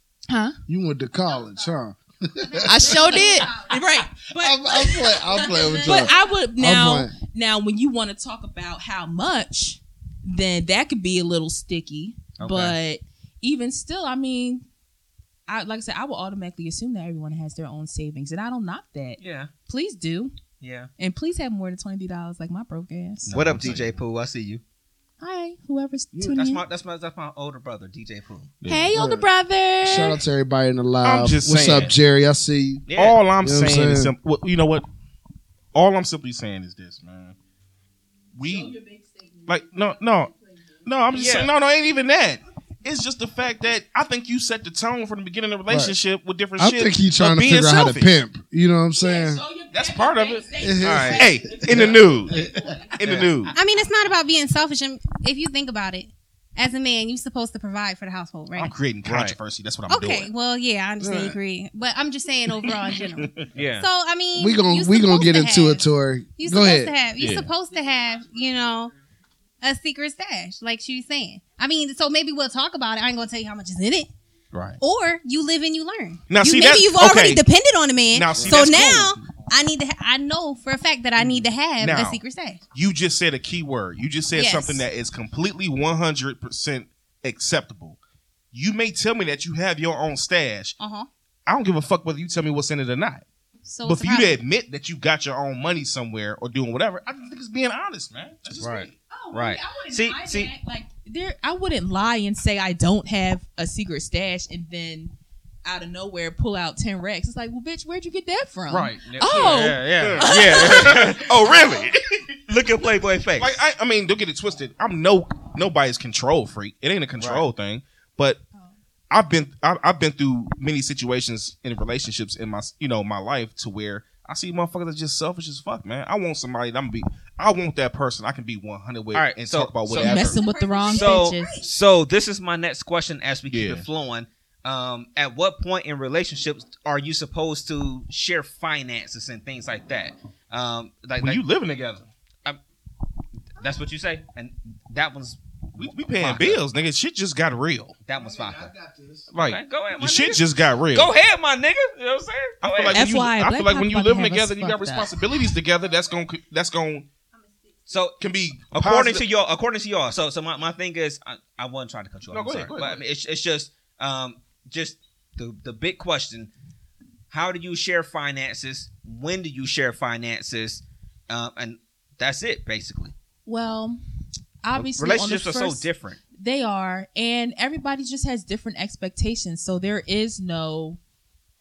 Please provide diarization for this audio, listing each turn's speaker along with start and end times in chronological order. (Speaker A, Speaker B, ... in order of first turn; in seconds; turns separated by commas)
Speaker A: 0.3-0.6, Speaker B: 0.7-3.5, Speaker A: 2.6-14.6, Speaker C: 2.8-3.7, Speaker B: 4.3-7.1, Speaker C: 5.5-6.1, Speaker D: 12.4-12.8, Speaker A: 15.5-20.3, Speaker D: 19.2-19.5, Speaker D: 20.6-20.9, Speaker A: 21.0-23.3, Speaker E: 23.3-23.9, Speaker D: 23.3-24.6, Speaker A: 25.2-26.6, Speaker D: 26.1-28.5, Speaker E: 28.6-28.9, Speaker A: 28.6-30.2, Speaker B: 28.9-29.2, Speaker B: 29.8-32.9, Speaker E: 31.0-31.9, Speaker D: 32.9-33.2, Speaker E: 32.9-34.9, Speaker B: 33.4-34.1, Speaker E: 35.7-37.3, Speaker E: 38.3-38.8, Speaker A: 38.4-39.6, Speaker E: 39.5-40.3, Speaker E: 40.9-48.1, Speaker D: 41.1-41.5, Speaker B: 45.7-45.9, Speaker B: 46.6-49.4, Speaker A: 49.0-52.9, Speaker E: 49.7-50.6, Speaker B: 50.6-52.7, Speaker D: 50.8-51.2, Speaker E: 51.1-52.4, Speaker E: 53.0-53.5, Speaker D: 53.0-53.3, Speaker C: 53.5-58.7, Speaker E: 58.5-60.3, Speaker D: 59.0-59.4, Speaker C: 59.9-65.8, Speaker B: 61.0-61.4, Speaker D: 63.5-63.9, Speaker B: 64.3-66.9, Speaker C: 66.4-68.9, Speaker E: 67.2-67.5, Speaker C: 69.6-74.1, Speaker E: 74.5-74.8, Speaker C: 74.8-82.6, Speaker E: 76.3-77.5, Speaker E: 78.1-79.3, Speaker E: 81.2-82.2, Speaker E: 82.7-88.0, Speaker C: 84.3-84.8, Speaker E: 88.5-90.8, Speaker C: 90.8-91.1, Speaker E: 91.5-93.2, Speaker C: 93.6-94.4, Speaker E: 93.8-98.9, Speaker D: 98.6-100.5, Speaker A: 99.1-105.1, Speaker A: 105.6-111.1, Speaker E: 108.7-112.4, Speaker D: 109.0-111.6, Speaker D: 112.5-113.5, Speaker E: 113.4-118.4, Speaker D: 117.2-117.4, Speaker E: 119.1-130.4, Speaker D: 129.1-130.3, Speaker A: 129.9-131.5, Speaker C: 130.2-131.7, Speaker D: 130.8-141.4, Speaker E: 133.5-133.8, Speaker E: 141.2-142.1, Speaker D: 143.6-146.6, Speaker E: 145.8-147.9, Speaker D: 148.1-148.7, Speaker B: 148.2-149.3, Speaker E: 149.3-151.1, Speaker D: 149.4-153.0, Speaker E: 152.6-157.1, Speaker A: 152.9-155.1, Speaker D: 157.9-158.2, Speaker E: 158.2-159.2, Speaker D: 158.7-166.5, Speaker E: 162.3-163.0, Speaker D: 167.3-173.1, Speaker A: 173.4-174.0, Speaker A: 174.6-181.0, Speaker D: 174.8-176.2